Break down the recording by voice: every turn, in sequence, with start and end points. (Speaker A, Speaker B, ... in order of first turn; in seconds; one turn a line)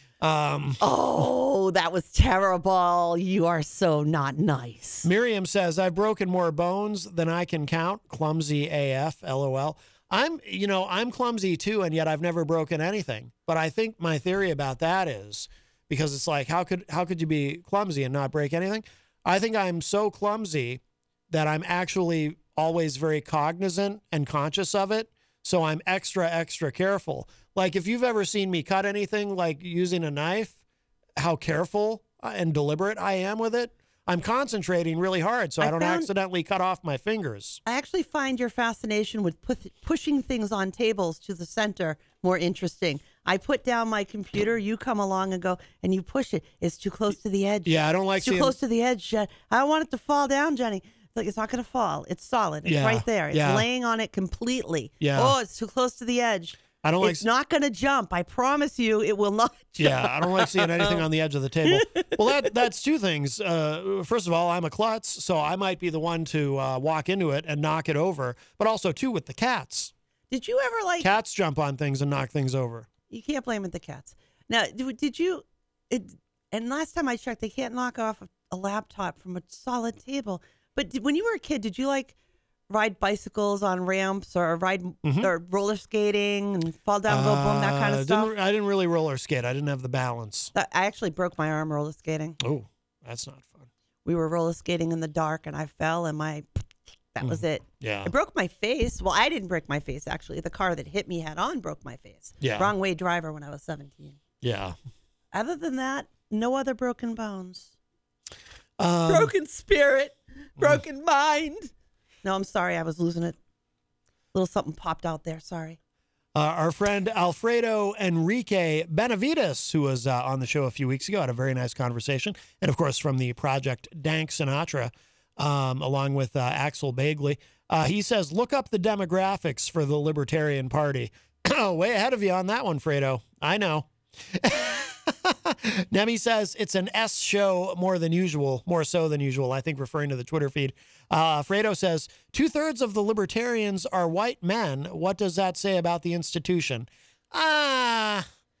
Speaker A: 0.2-1.2
Speaker B: 0.8-5.1
Speaker A: 5.0-30.6
Speaker A: 31.2-37.6
Speaker B: 35.6-36.1
Speaker B: 37.6-61.0
Speaker A: 47.6-48.5
Speaker A: 52.6-53.6
Speaker A: 55.0-55.4
Speaker A: 56.8-57.2
Speaker A: 59.8-69.9
Speaker B: 61.6-62.2
Speaker B: 70.3-71.1
Speaker A: 71.0-72.9
Speaker B: 73.1-82.1
Speaker B: 82.7-88.3
Speaker A: 85.0-85.3
Speaker A: 87.1-90.5
Speaker B: 90.5-92.4
Speaker A: 92.4-93.7
Speaker B: 94.0-96.5
Speaker B: 97.1-104.2
Speaker A: 97.2-98.1
Speaker A: 102.4-102.7
Speaker A: 104.4-104.8
Speaker B: 105.3-107.7
Speaker A: 108.8-109.3
Speaker B: 109.1-111.7
Speaker B: 112.2-113.4
Speaker B: 114.3-115.8
Speaker A: 116.3-148.2